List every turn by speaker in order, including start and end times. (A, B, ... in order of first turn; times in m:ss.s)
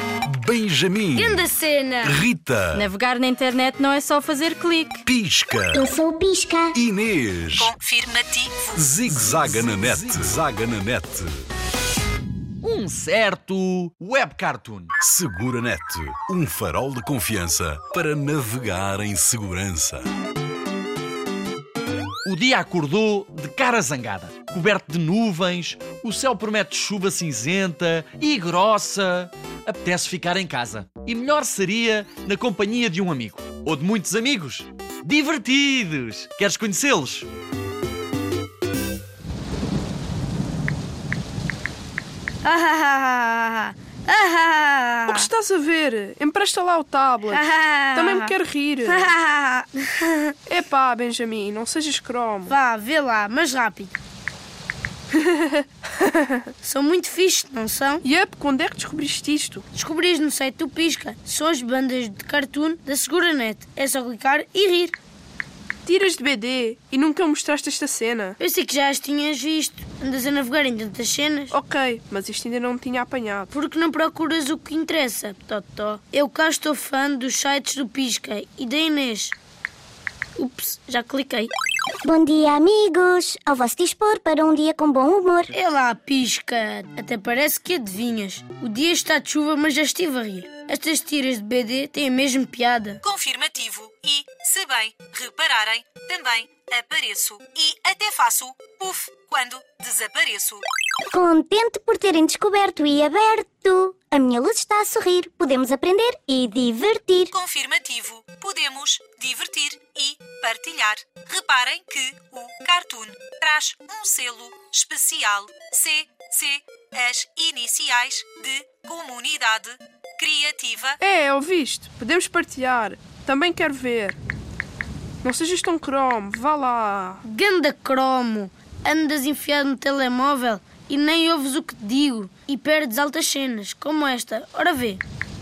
0:00.3-0:01.5 A
0:01.2-0:02.2 B
0:02.0-0:02.8 A
0:02.8-0:05.0 C
0:05.0-0:05.9 A
0:05.7-0:06.7 D
0:06.7-0:07.7 A
0:07.6-0:08.7 E
0:08.8-0:11.3 A
0:12.6-0:14.9 F
0:15.0-0:20.0 A
0:22.2-0:37.3 F
0:42.4-0:45.2 B
0:45.1-0:49.1 G
0:47.3-0:48.3 B
0:48.9-0:50.4 B
0:50.5-0:52.5 G
0:52.5-0:53.9 B
0:55.2-0:56.2 G
0:56.6-0:58.0 B
0:58.0-0:59.6 G
0:59.7-1:04.9 B
1:05.9-1:08.3 G
1:08.4-1:11.5 B
1:11.5-1:13.5 G
1:13.5-1:19.3 B
1:20.4-1:21.5 B
1:22.0-1:25.5 D
1:25.5-1:33.0 B
1:33.0-1:40.6 E
1:41.1-1:47.3 D
1:47.3-2:01.0 E
2:01.0-2:04.2 G
2:05.2-2:07.2 G
2:07.2-2:15.0 B